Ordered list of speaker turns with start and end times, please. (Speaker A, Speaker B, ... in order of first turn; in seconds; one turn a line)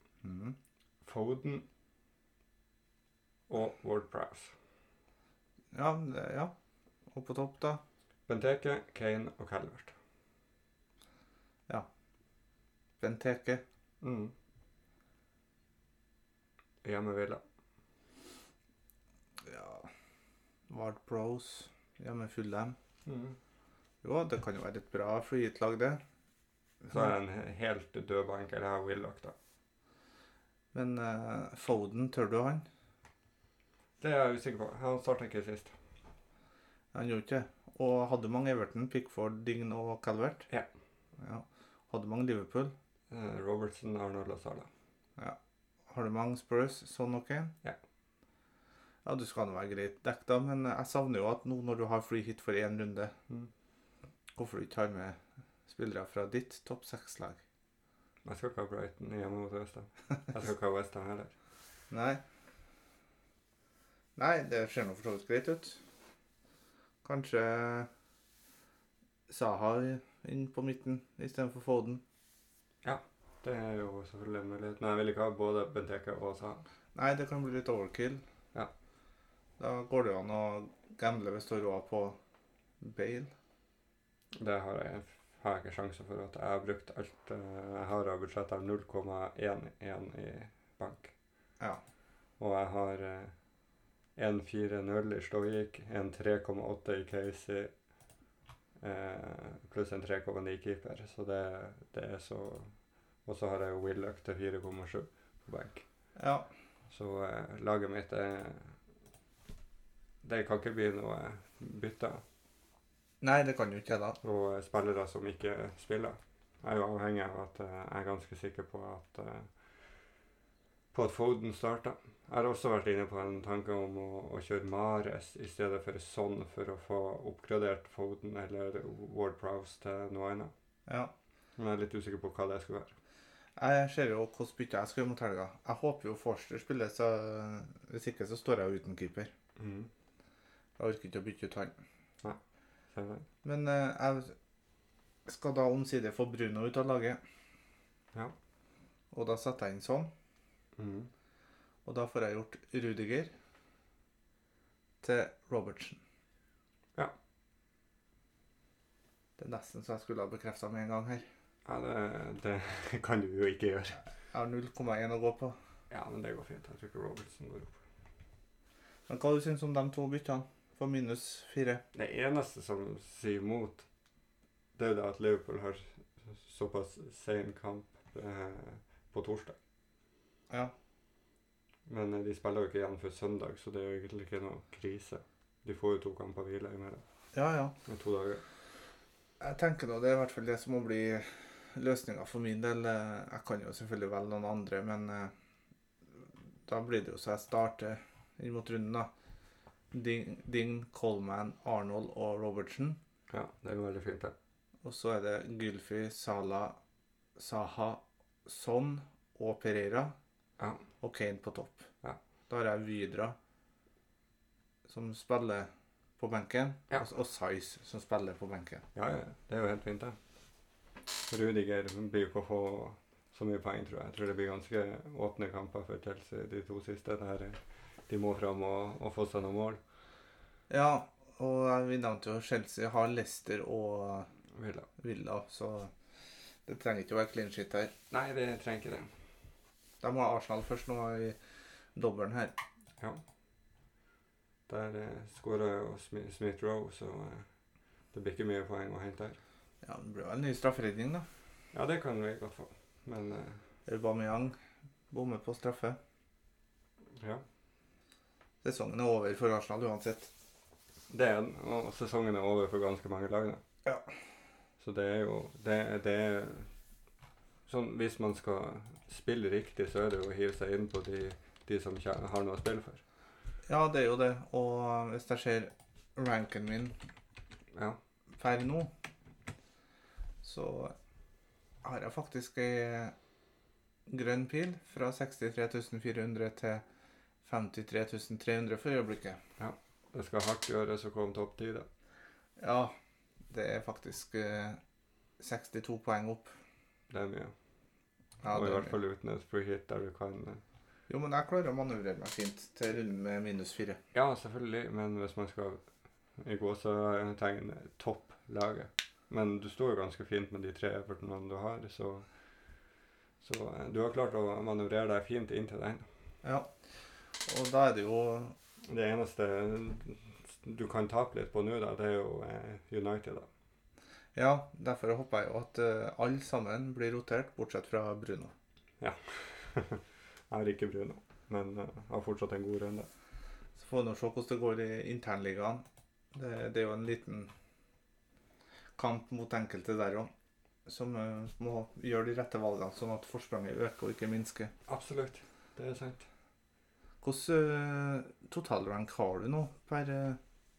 Speaker A: 0.2-0.6
Speaker B: 1.0-1.6
Speaker B: 3.5-4.5
Speaker A: 5.7-6.5
Speaker A: 7.1-7.8
Speaker B: 8.3-9.9
Speaker A: 13.0-13.6
Speaker B: 14.0-14.3
Speaker B: 16.8-17.4
Speaker A: 19.4-19.9
Speaker A: 20.7-22.8
Speaker B: 23.1-23.4
Speaker A: 24.0-26.0
Speaker A: 26.8-27.1
Speaker B: 26.9-29.3
Speaker A: 30.7-32.6
Speaker B: 34.0-35.8
Speaker A: 36.9-40.5
Speaker A: 41.2-42.7
Speaker B: 43.1-44.7
Speaker A: 45.9-47.5
Speaker A: 49.0-53.1
Speaker A: 54.4-55.2
Speaker A: 55.7-57.4
Speaker B: 58.2-61.3
Speaker A: 61.9-62.2
Speaker A: 64.2-65.8
Speaker A: 67.0-67.9
Speaker A: 69.3-72.0
Speaker B: 72.8-76.6
Speaker A: 76.9-78.2
Speaker A: 79.6-82.2
Speaker A: 82.8-83.3
Speaker B: 84.3-91.1
Speaker B: 92.4-93.3
Speaker B: 94.2-97.7
Speaker B: 98.8-105.8
Speaker A: 106.2-106.5
Speaker B: 106.9-108.8
Speaker B: 110.2-112.2
Speaker A: 113.2-114.2
Speaker B: 114.2-119.5
Speaker B: 120.9-130.5
Speaker A: 130.9-131.1
Speaker B: 131.6-132.9
Speaker A: 133.6-139.3
Speaker B: 139.6-139.9
Speaker A: 140.8-141.8
Speaker B: 142.9-143.2
Speaker A: 143.4-144.3
Speaker A: 145.3-147.2
Speaker A: 149.1-150.1
Speaker B: 150.8-151.1
Speaker A: 151.8-153.3
Speaker A: 155.0-156.0
Speaker A: 159.4-161.2
Speaker B: 161.6-164.0
Speaker A: 164.3-165.6
Speaker B: 165.9-167.8
Speaker A: 169.1-171.8
Speaker B: 171.9-173.8
Speaker B: 174.8-179.6
Speaker B: 181.9-187.0
Speaker A: 187.3-187.7
Speaker B: 187.8-188.4
Speaker A: 189.4-195.3
Speaker A: 196.7-199.1
Speaker A: 199.9-203.0
Speaker B: 203.3-204.3
Speaker A: 204.8-206.8
Speaker A: 207.3-210.1
Speaker B: 210.6-210.8
Speaker A: 211.0-211.9
Speaker A: 212.5-213.3
Speaker A: 214.9-218.8
Speaker B: 218.9-220.2
Speaker B: 221.3-227.6
Speaker B: 228.1-229.8
Speaker A: 230.7-234.3
Speaker B: 234.6-234.9
Speaker A: 235.0-235.9
Speaker A: 236.7-237.9
Speaker B: 238.1-239.1
Speaker A: 240.0-241.3
Speaker A: 241.9-242.6
Speaker B: 244.7-247.5
Speaker B: 248.1-249.4
Speaker A: 249.8-251.2
Speaker B: 251.7-253.6
Speaker A: 253.9-254.6
Speaker A: 255.1-256.0
Speaker B: 257.2-257.4
Speaker A: 258.6-260.3
Speaker B: 261.1-263.6
Speaker B: 264.8-266.7
Speaker B: 267.7-273.0
Speaker A: 273.7-276.9
Speaker B: 277.7-278.0
Speaker A: 278.4-278.9
Speaker A: 280.4-280.9
Speaker A: 281.8-283.1
Speaker A: 284.1-286.8
Speaker A: 287.4-289.4
Speaker B: 289.6-291.9
Speaker A: 292.6-292.9
Speaker A: 293.5-294.8
Speaker A: 295.4-296.5
Speaker B: 297.1-297.5
Speaker A: 298.4-298.9
Speaker B: 298.5-300.6
Speaker A: 301.1-304.0
Speaker B: 304.1-305.8
Speaker B: 306.4-312.3
Speaker B: 313.4-316.1
Speaker A: 316.4-316.7
Speaker A: 317.4-318.5
Speaker B: 318.9-323.5
Speaker A: 324.3-328.5
Speaker B: 329.0-333.1
Speaker A: 333.8-337.5
Speaker A: 339.0-340.3
Speaker A: 340.9-344.7
Speaker B: 344.9-346.2
Speaker A: 347.2-350.4